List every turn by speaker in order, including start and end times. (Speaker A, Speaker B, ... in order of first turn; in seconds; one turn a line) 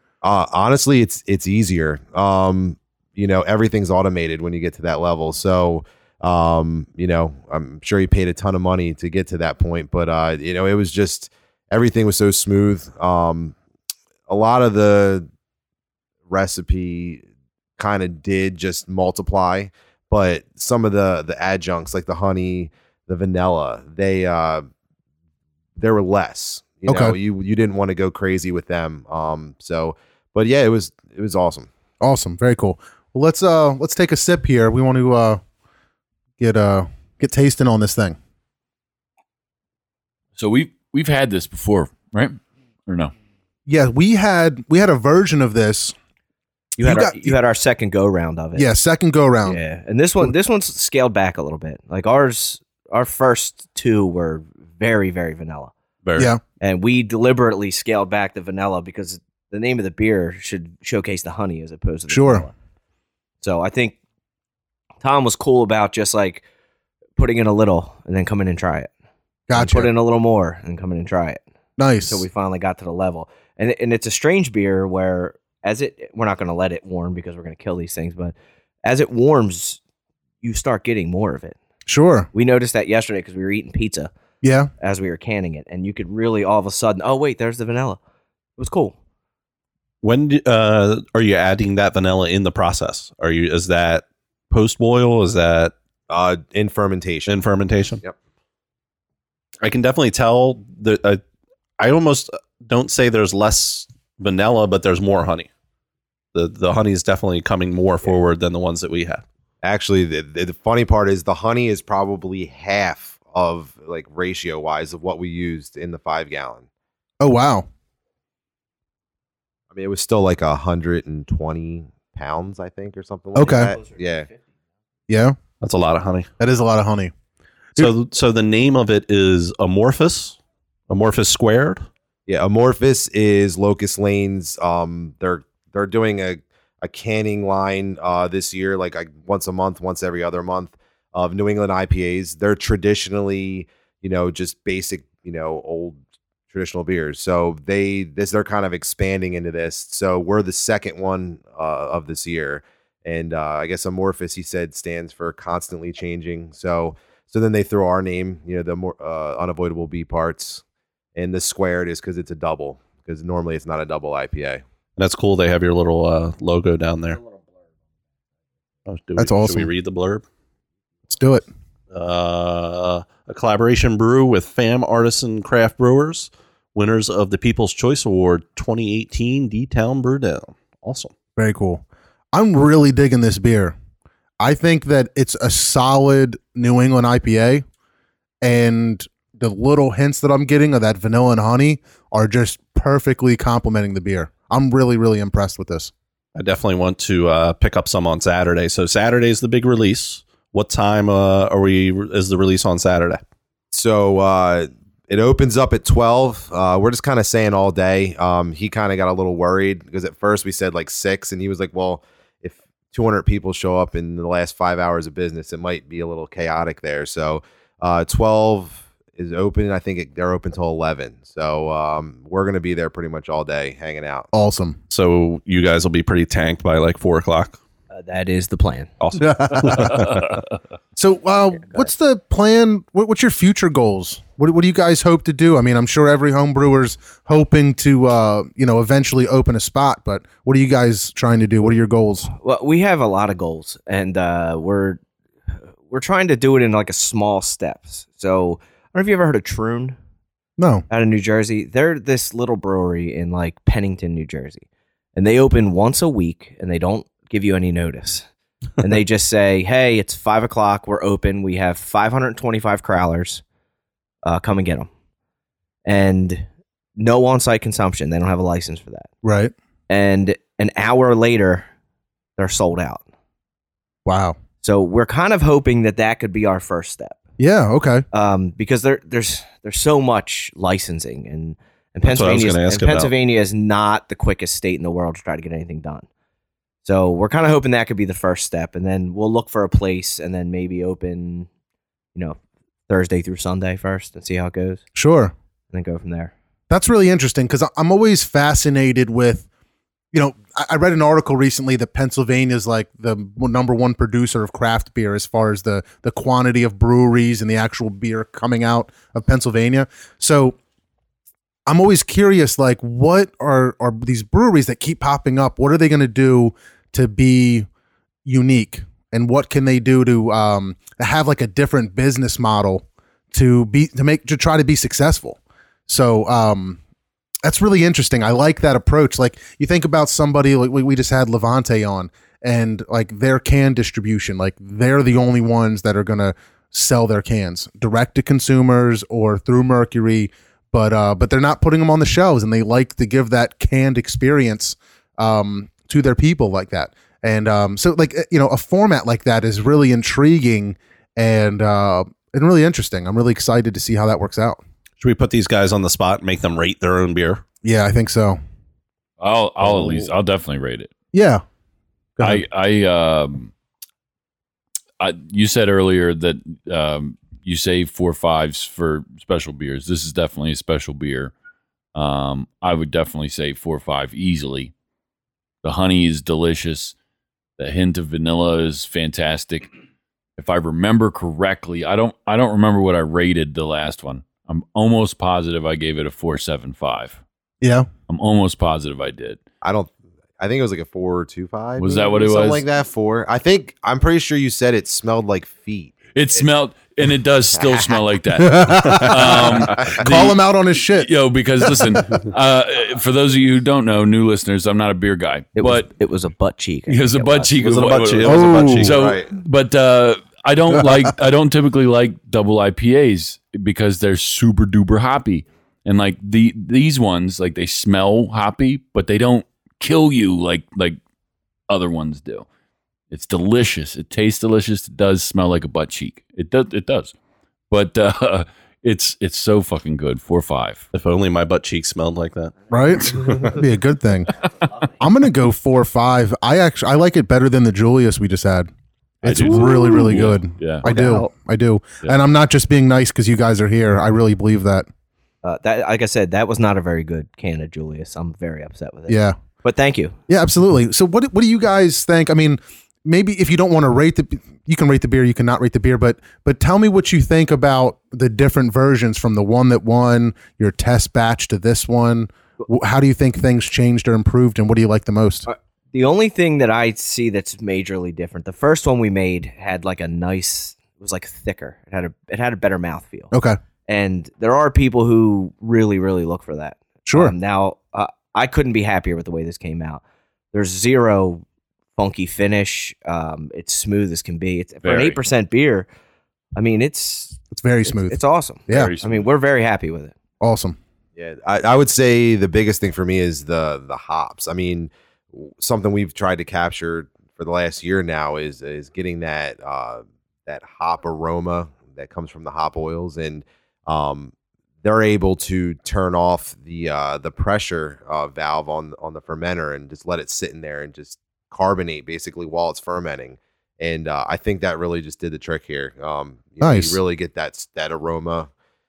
Speaker A: 0.2-13.6
Speaker A: 14.3-15.3
Speaker A: 16.3-17.2
Speaker A: 17.8-24.6
Speaker A: 25.8-31.7
Speaker B: 26.9-27.1
Speaker B: 32.0-35.4
Speaker B: 36.4-38.1
Speaker C: 40.4-43.1
Speaker B: 43.7-45.9
Speaker D: 46.8-48.7
Speaker B: 46.8-47.4
Speaker B: 48.5-49.6
Speaker D: 49.5-55.7
Speaker E: 56.0-56.3
Speaker D: 56.6-62.5
Speaker B: 62.1-62.5
Speaker D: 63.4-64.0
Speaker D: 65.0-66.4
Speaker D: 67.2-68.9
Speaker B: 69.5-69.9
Speaker D: 69.5-71.4
Speaker B: 71.8-72.2
Speaker D: 72.1-79.8
Speaker D: 80.4-81.6
Speaker B: 81.8-82.3
Speaker D: 82.3-84.1
Speaker B: 84.4-84.7
Speaker D: 84.8-88.0
Speaker D: 88.6-89.0
Speaker E: 90.0-95.7
Speaker A: 96.1-97.4
Speaker E: 97.3-98.0
Speaker E: 99.6-101.2
Speaker E: 101.8-105.5
Speaker E: 106.3-109.2
Speaker A: 109.6-116.6
Speaker B: 117.2-117.7
Speaker A: 119.7-124.3
Speaker B: 123.3-123.8
Speaker B: 125.1-125.4
Speaker E: 125.6-126.3
Speaker B: 126.4-127.1
Speaker E: 127.8-130.4
Speaker E: 130.9-131.8
Speaker A: 132.3-146.0
Speaker A: 146.5-160.6
Speaker A: 161.2-164.6
Speaker E: 165.0-167.2
Speaker E: 168.8-170.2
Speaker B: 169.2-169.7
Speaker B: 171.1-171.4
Speaker E: 171.9-181.1
Speaker B: 181.4-183.7
Speaker B: 184.4-187.6
Speaker B: 188.4-195.9
Speaker E: 196.3-203.2
Speaker A: 203.7-224.3
Speaker B: 224.3-224.8
Speaker E: 224.9-227.6
Speaker D: 227.9-228.9
Speaker E: 229.0-230.4
Speaker B: 229.2-230.1
Speaker B: 230.9-242.3
Speaker D: 242.3-245.0
Speaker D: 245.9-249.9
Speaker B: 250.6-250.8
Speaker D: 250.9-258.2
Speaker D: 258.8-263.4
Speaker D: 264.2-264.9
Speaker D: 265.9-266.4
Speaker D: 267.0-269.1
Speaker B: 269.2-269.5
Speaker D: 269.9-271.7
Speaker D: 272.4-273.0
Speaker B: 274.1-274.4
Speaker D: 274.6-277.2
Speaker B: 277.4-278.1
Speaker D: 278.1-286.1
Speaker E: 282.0-283.1
Speaker D: 286.8-291.5
Speaker D: 292.1-294.8
Speaker B: 294.9-295.3
Speaker D: 295.7-296.3
Speaker B: 296.7-299.4
Speaker B: 300.1-310.6
Speaker B: 311.6-317.7
Speaker B: 318.2-326.8
Speaker B: 327.4-354.6
Speaker E: 355.0-357.4
Speaker B: 357.6-358.4
Speaker C: 359.2-360.9
Speaker B: 361.1-361.4
Speaker B: 362.2-362.4
Speaker C: 362.2-363.5
Speaker C: 365.0-371.3
Speaker C: 371.9-374.7
Speaker C: 375.6-376.9
Speaker C: 377.6-379.7
Speaker C: 380.4-387.2
Speaker B: 387.6-387.9
Speaker C: 388.1-389.4
Speaker A: 389.6-396.4
Speaker C: 391.8-392.6
Speaker C: 396.1-405.9
Speaker B: 398.4-401.1
Speaker A: 399.4-400.0
Speaker B: 401.6-402.1
Speaker D: 405.6-408.2
Speaker C: 406.9-421.0
Speaker E: 407.6-408.9
Speaker B: 408.2-408.9
Speaker A: 408.8-409.3
Speaker C: 421.7-422.4
Speaker C: 423.1-427.1
Speaker C: 427.7-430.9
Speaker E: 430.9-432.6
Speaker B: 432.7-434.3
Speaker E: 433.1-433.5
Speaker B: 435.0-438.7
Speaker B: 439.2-444.9
Speaker C: 439.2-440.9
Speaker D: 440.9-441.2
Speaker D: 445.4-450.1
Speaker B: 449.1-449.4
Speaker B: 450.3-465.5
Speaker D: 465.4-473.3
Speaker B: 473.3-473.6
Speaker D: 473.9-480.0
Speaker B: 477.1-477.3
Speaker D: 480.5-481.4
Speaker D: 481.9-485.9
Speaker C: 484.8-485.2
Speaker D: 486.6-490.1
Speaker B: 487.5-488.9
Speaker C: 488.7-489.3
Speaker B: 490.4-490.8
Speaker A: 491.1-518.5
Speaker B: 516.6-517.0